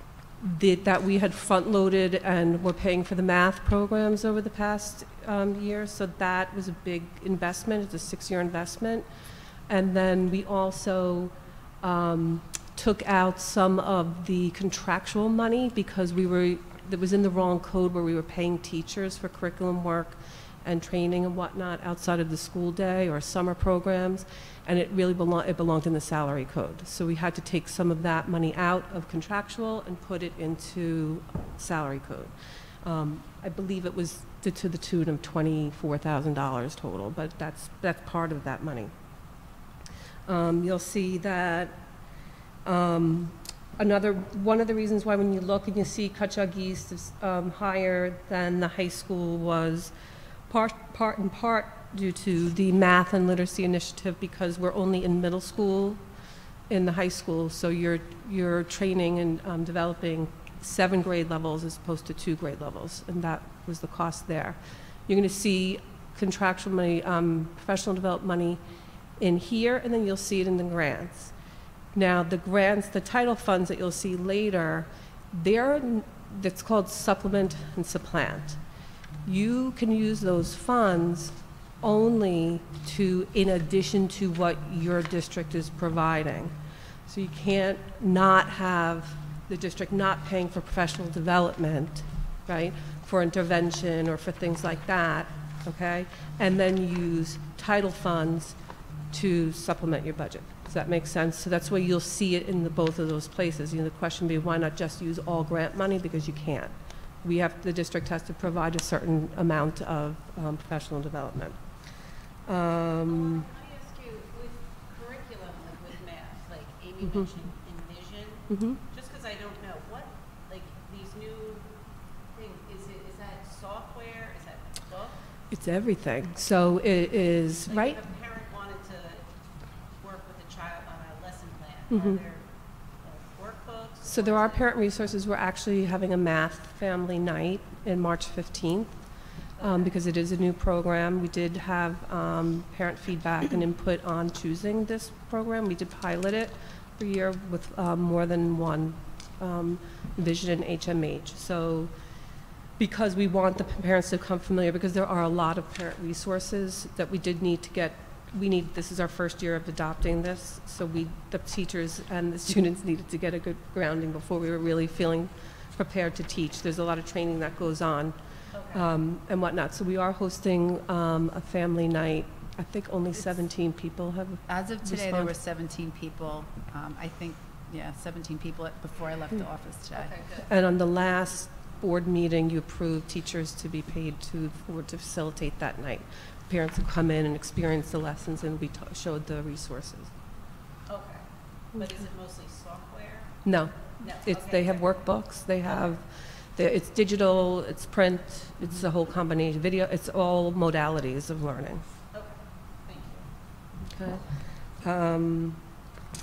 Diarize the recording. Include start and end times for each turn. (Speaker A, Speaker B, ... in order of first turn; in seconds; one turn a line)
Speaker A: 0.4-39.5
Speaker A: 40.2-113.5
Speaker B: 113.0-125.2
Speaker A: 117.0-117.3
Speaker A: 118.5-118.8
Speaker A: 125.5-128.0
Speaker B: 127.6-134.8
Speaker A: 131.9-132.2
Speaker A: 134.0-175.3
Speaker B: 139.6-140.0
Speaker B: 168.5-168.9
Speaker C: 174.4-180.1
Speaker B: 179.9-181.1
Speaker A: 180.4-190.1
Speaker B: 190.8-196.0
Speaker A: 191.8-192.0
Speaker A: 193.4-201.8
Speaker B: 202.1-203.3
Speaker A: 203.8-205.6